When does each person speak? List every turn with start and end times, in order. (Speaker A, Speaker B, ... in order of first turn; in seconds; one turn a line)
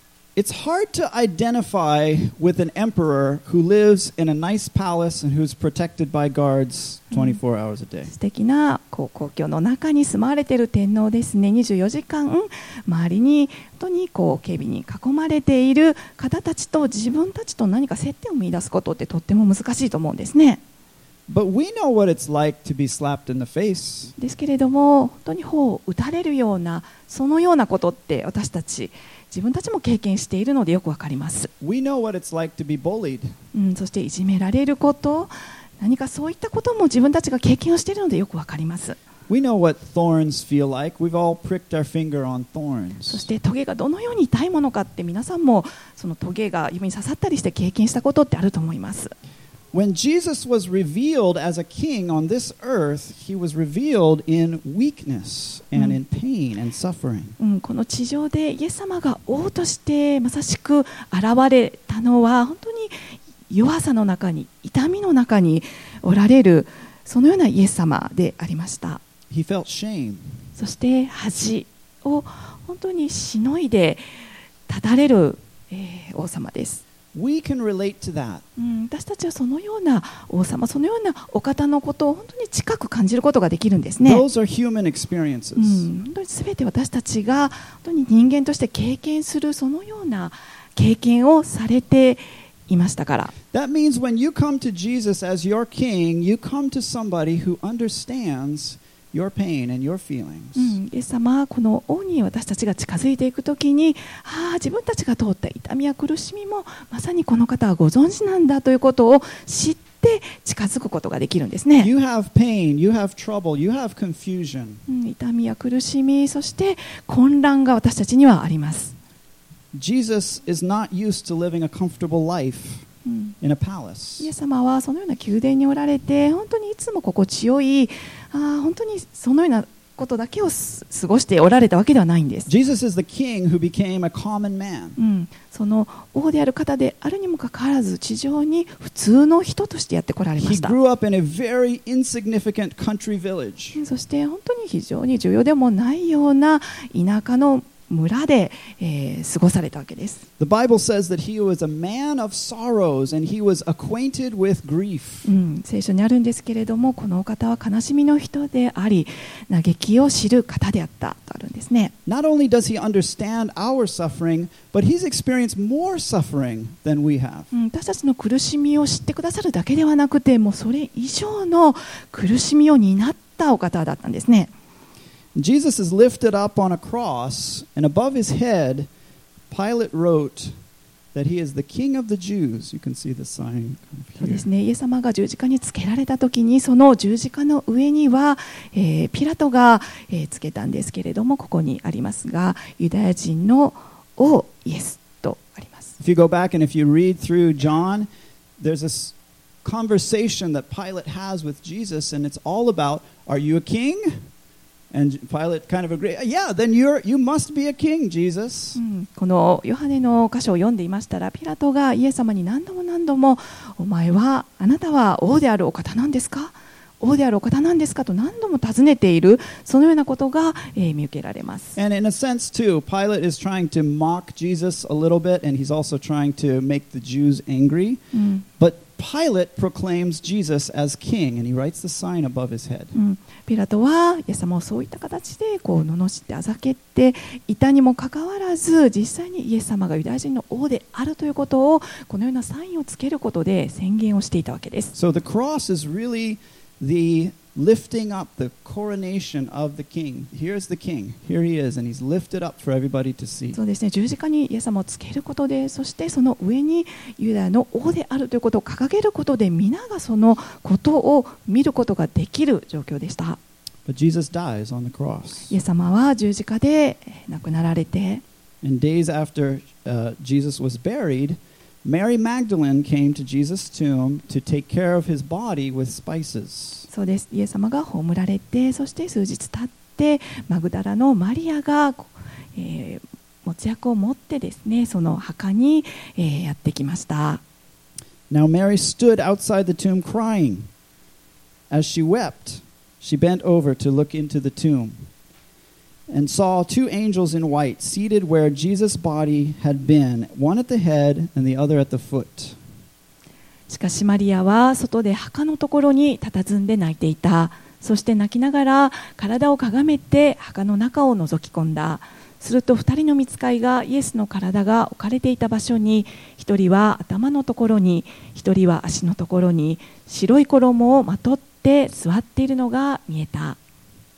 Speaker A: 0.3-8.1
Speaker B: 8.1-20.6
Speaker A: 21.3-24.1
Speaker B: 24.2-31.5
Speaker A: 31.6-33.3
Speaker B: 33.5-39.0
Speaker A: 39.3-43.2
Speaker B: 43.1-49.1
Speaker A: 49.7-57.3
Speaker B: 57.4-69.0
Speaker A: 69.3-70.4
Speaker B: 70.5-74.0
Speaker B: 74.7-76.8
Speaker A: 77.1-78.4
Speaker B: 78.6-84.2
Speaker A: 84.0-85.9
Speaker B: 85.5-93.3
Speaker A: 93.5-100.8
Speaker B: 100.5-111.9
Speaker A: 111.8-114.8
Speaker B: 114.9-118.9
Speaker A: 119.7-122.8
Speaker B: 123.0-123.3
Speaker A: 123.4-124.3
Speaker B: 124.2-132.5
Speaker A: 132.5-135.0
Speaker B: 135.0-140.7
Speaker A: 140.4-143.8
Speaker B: 143.8-150.2
Speaker A: 150.4-155.3
Speaker B: 155.2-161.9
Speaker A: 162.1-167.5
Speaker B: 167.5-174.5
Speaker A: 175.3-178.9
Speaker A: 179.5-180.5
Speaker A: 181.1-184.4
Speaker B: 184.2-195.9
Speaker A: 196.0-198.1
Speaker A: 198.6-204.2
Speaker A: 204.9-208.8
Speaker B: 208.8-221.8
Speaker A: 221.8-228.0
Speaker B: 228.1-228.4
Speaker A: 228.6-232.9
Speaker B: 232.9-244.9
Speaker A: 244.9-253.6
Speaker B: 253.5-263.4
Speaker A: 263.9-265.5
Speaker B: 265.5-268.2
Speaker A: 268.6-276.9
Speaker B: 276.9-287.4
Speaker A: 288.3-290.7
Speaker A: 291.7-295.0
Speaker A: 296.1-302.6
Speaker B: 303.7-323.6